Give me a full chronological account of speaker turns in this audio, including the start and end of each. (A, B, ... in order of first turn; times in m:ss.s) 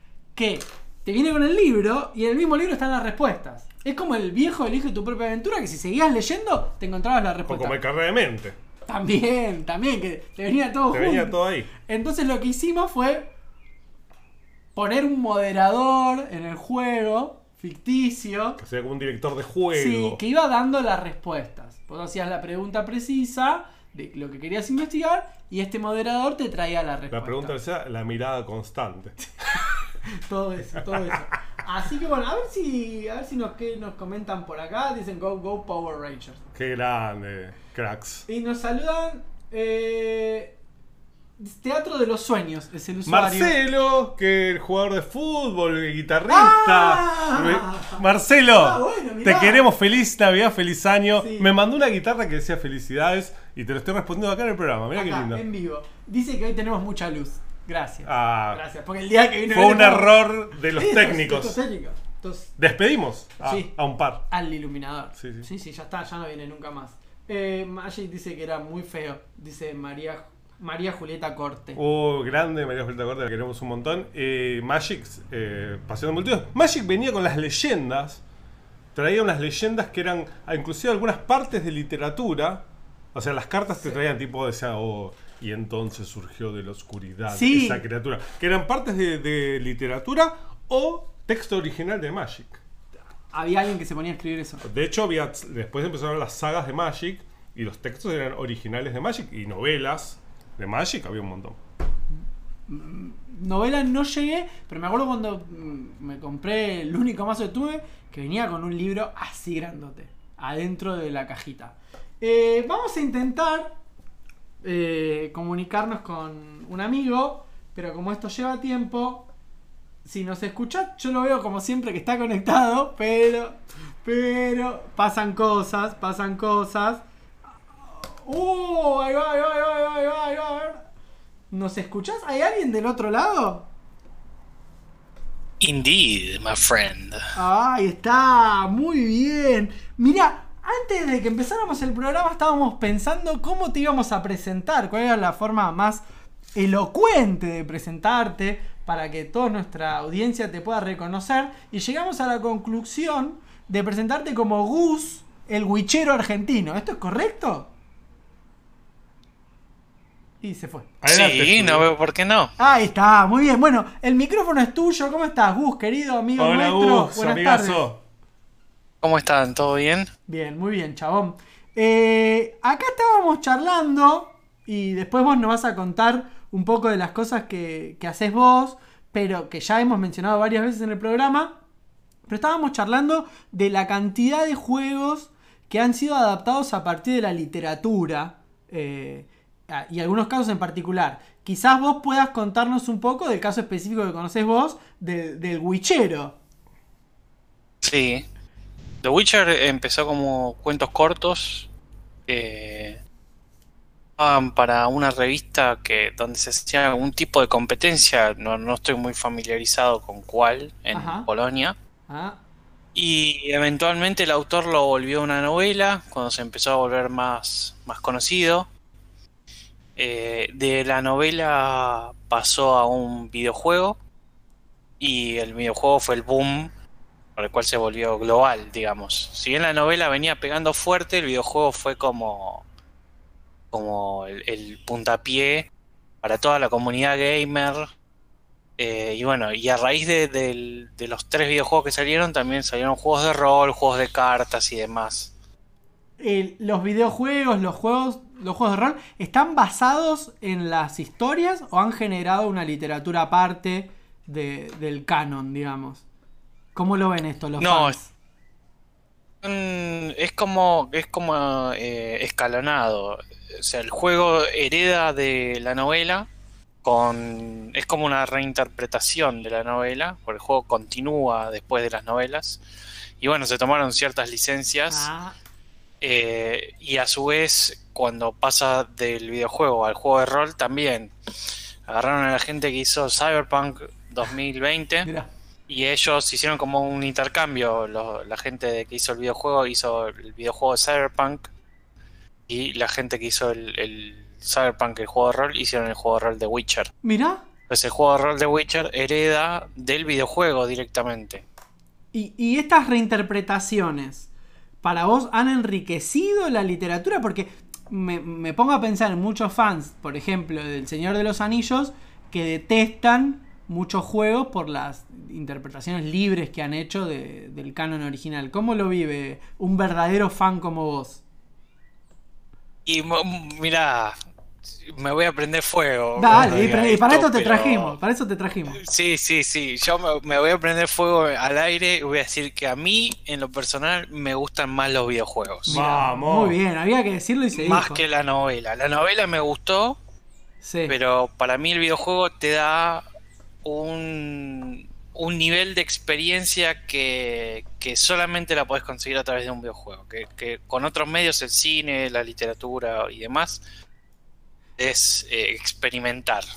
0:00.4-0:07.8 A
0:07.4-0:08.6 B
0:08.9-0:13.3 A
0:10.9-0:11.7 B
0:14.8-0:18.6 A
0:18.6-0:20.2 B
0:19.7-0:27.6 A
0:27.1-0:29.3 B
0:30.0-0:36.5 A
0:30.8-0:31.2 B
0:36.5-0:38.3 B
0:38.3-0:40.6 A
0:41.4-0:43.6 A
0:43.1-0:55.4 B
0:46.3-0:49.6 A
0:51.2-0:51.5 A
0:54.9-1:02.5 A
0:58.0-0:58.6 B
0:59.5-1:01.6 B
1:02.6-1:04.3 B
1:03.4-1:03.7 A
1:04.3-1:11.8 A
1:05.2-1:05.5 B
1:11.8-1:18.2 B
1:19.0-1:32.6 B
1:23.7-1:24.0 A
1:27.3-1:27.8 A
1:33.3-1:34.6 A
1:34.6-1:41.6 B
1:42.7-1:53.8 A
1:54.6-1:59.3 A
2:00.0-2:07.0 A
2:07.9-2:10.8 A
2:11.5-2:13.7 A
2:15.6-2:17.3 C
2:17.4-2:26.0 A
2:26.6-2:37.7 A
2:40.4-2:40.9 A
2:41.0-2:41.9 B
2:41.1-2:42.5 C
2:42.6-2:47.9 A
2:46.4-2:48.0 B
2:49.0-2:50.1 C
2:50.3-3:01.6 A
3:02.3-3:16.4 A
3:17.8-3:18.2 C
3:19.0-3:21.7 C
3:22.3-3:23.0 C
3:24.2-3:31.8 C
3:30.9-3:31.3 A
3:32.1-3:32.4 A
3:33.0-3:38.7 C
3:40.0-3:44.0 C
3:45.0-3:46.7 C
3:47.4-3:52.6 C
3:53.7-3:55.7 C
3:56.2-3:57.9 C
3:58.8-4:05.3 C
4:06.2-4:16.0 A
4:16.8-4:18.1 A
4:17.6-4:18.0 C
4:19.4-4:26.3 C
4:26.8-4:32.6 C
4:33.2-4:35.1 C
4:34.9-4:35.4 A
4:36.0-4:41.1 C
4:41.9-4:45.1 C
4:45.0-4:45.3 A
4:45.7-4:51.5 C
4:52.5-4:56.9 C
4:57.0-4:57.4 A
4:57.7-5:01.4 C
5:02.1-5:04.3 A
5:04.8-5:21.2 A
5:22.9-5:24.2 C
5:24.8-5:28.0 C
5:26.2-5:28.8 A
5:26.3-5:26.8 B
5:28.8-5:35.8 C
5:35.7-5:38.0 A
5:35.7-5:36.6 B
5:37.6-5:40.0 C
5:40.6-5:41.0 A
5:40.9-5:43.0 C
5:43.6-5:53.6 C
5:54.8-5:56.5 C